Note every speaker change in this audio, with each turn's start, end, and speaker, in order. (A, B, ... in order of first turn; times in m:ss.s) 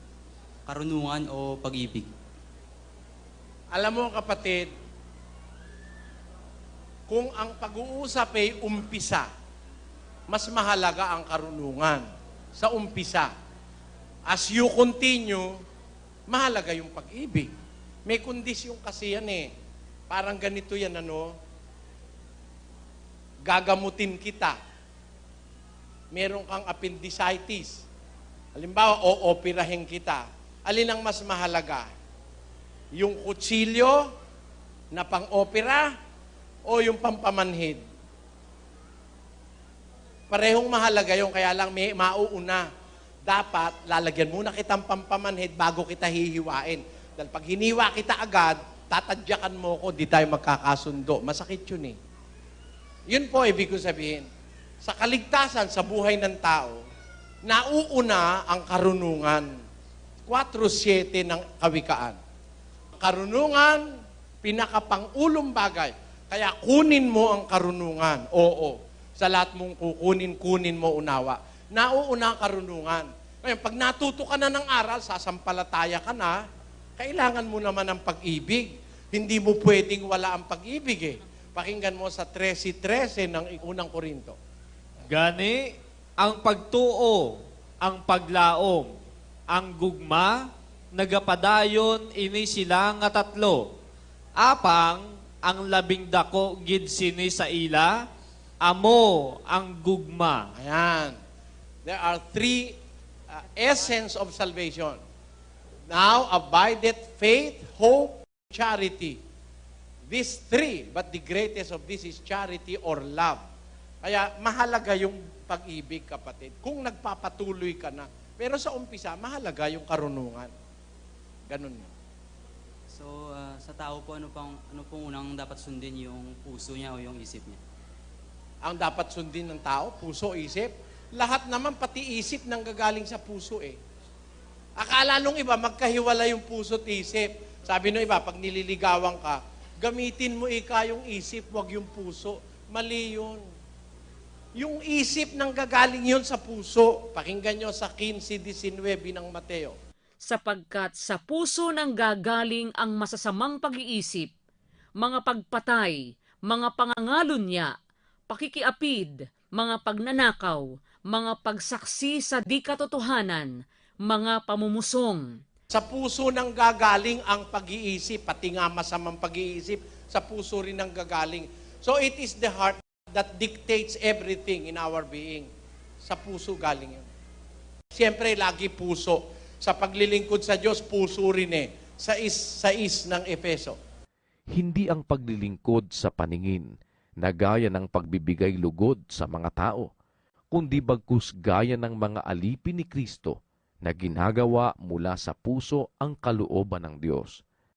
0:00.7-0:02.1 A
0:03.7-0:04.7 B
0:07.1-0:09.3 B
0:10.3-0:12.0 B
0:12.6-0:13.3 B
0:14.3-0:15.5 B
0:16.3-0:17.5 B
0:18.1-0:19.5 B
0:20.1-0:21.3 B
0:23.4-0:24.6 B
0:26.1-0:27.8 B
0:28.6-0:31.9 B
0:32.9-0:34.0 B
0:34.9-0:35.9 B
0:36.6-0:37.8 B
0:40.3-0:42.6 B
0:43.2-0:52.0 B
0:53.1-0:54.2 B
0:54.8-0:56.8 B
0:57.4-0:59.5 B
1:00.3-1:02.2 B
1:03.0-1:03.8 B
1:04.4-1:16.4 B
1:17.0-1:24.4 B
1:25.1-1:25.6 C
1:26.2-1:28.9 C
1:29.5-1:33.6 C
1:34.4-1:38.0 C
1:38.6-1:40.5 C
1:40.6-1:41.2 B
1:41.8-1:42.8 B
1:43.3-1:45.0 B
1:45.9-1:49.2 B
1:50.1-1:53.4 B
1:54.0-2:00.5 B
2:01.5-2:01.9 B
2:02.9-2:07.6 A
2:08.6-2:13.8 B
2:14.8-2:23.4 B
2:24.6-2:29.8 B
2:30.3-2:34.3 D
2:35.0-2:37.7 D
2:38.3-2:43.5 D
2:44.1-2:45.2 D
2:45.7-2:55.5 B
2:56.0-2:57.1 B
2:57.9-3:03.8 B
3:04.5-3:06.7 E
3:07.2-3:09.9 E
3:10.5-3:17.4 E